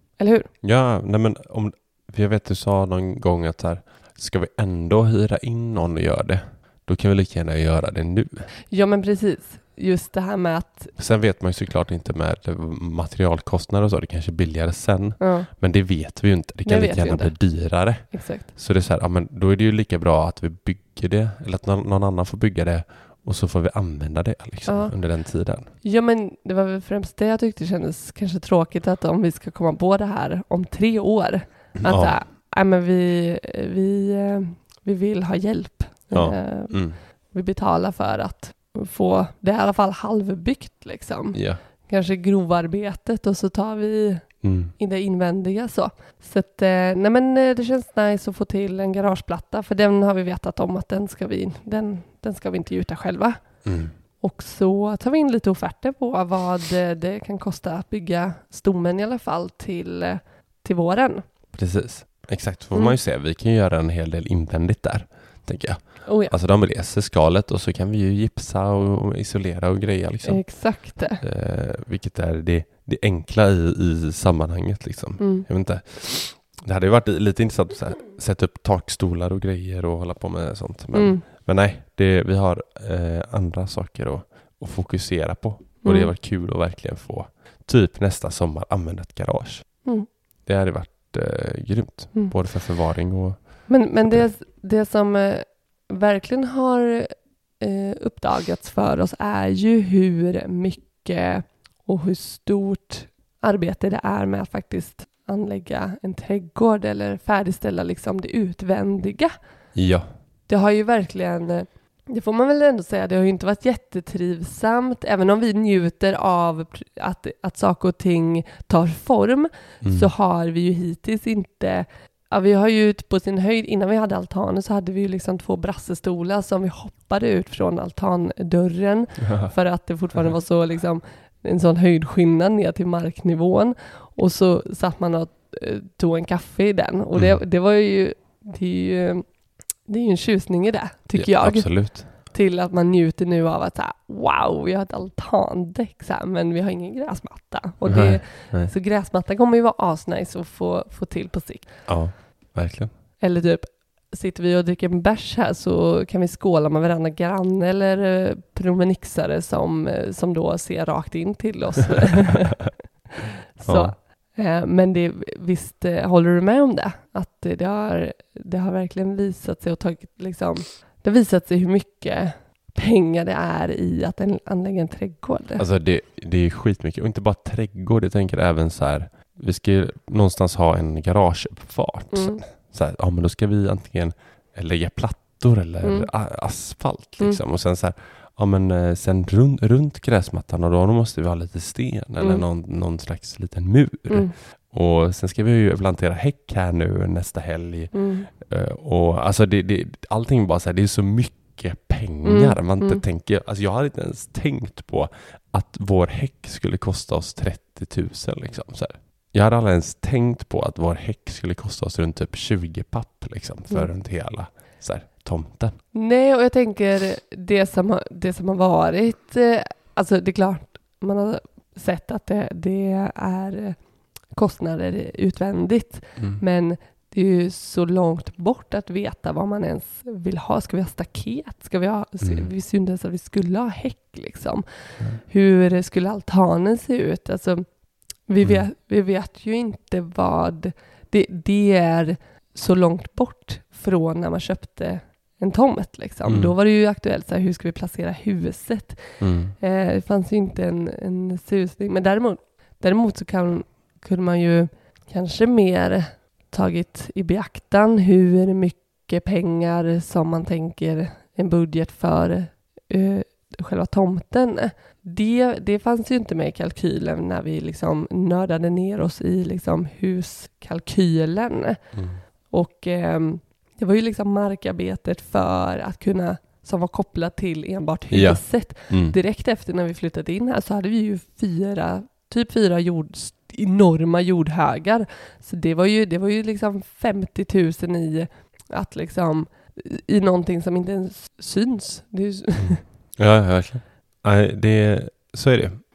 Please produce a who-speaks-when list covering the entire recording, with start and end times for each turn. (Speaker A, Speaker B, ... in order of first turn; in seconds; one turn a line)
Speaker A: 0.2-0.5
Speaker B: 0.6-8.5
Speaker A: 8.7-10.9
Speaker B: 10.9-25.7
Speaker A: 15.2-15.5
Speaker A: 16.6-18.5
Speaker A: 24.6-24.9
Speaker A: 25.8-53.6
Speaker B: 31.8-32.2
Speaker B: 36.1-37.0
Speaker B: 41.3-41.6
Speaker B: 44.4-44.7
Speaker B: 53.6-53.9
Speaker A: 54.2-61.2
Speaker B: 61.5-94.3
Speaker A: 66.0-66.3
Speaker A: 70.2-71.2
Speaker A: 75.2-75.5
Speaker A: 80.9-81.2
Speaker A: 85.8-86.1
Speaker A: 93.7-109.3
Speaker B: 109.7-110.1
Speaker A: 110.5-151.7
Speaker B: 119.8-120.1
Speaker B: 129.2-129.5
Speaker B: 141.1-142.1
Speaker B: 147.8-148.7
Speaker B: 151.9-152.9
Speaker A: 153.2-162.8
Speaker A: 163.6-175.6
Speaker B: 163.6-163.9
Speaker B: 175.6-215.8
Speaker A: 182.1-182.4
Speaker A: 185.8-186.1
Speaker A: 192.2-192.4
Speaker A: 197.9-198.3
Speaker A: 202.2-203.0
Speaker A: 215.9-292.8
Speaker B: 226.2-226.4
Speaker B: 232.2-232.5
Speaker B: 238.4-238.7
Speaker B: 246.2-246.5
Speaker B: 249.2-249.6
Speaker B: 271.9-272.2
Speaker B: 278.1-279.2
Speaker B: 292.6-295.8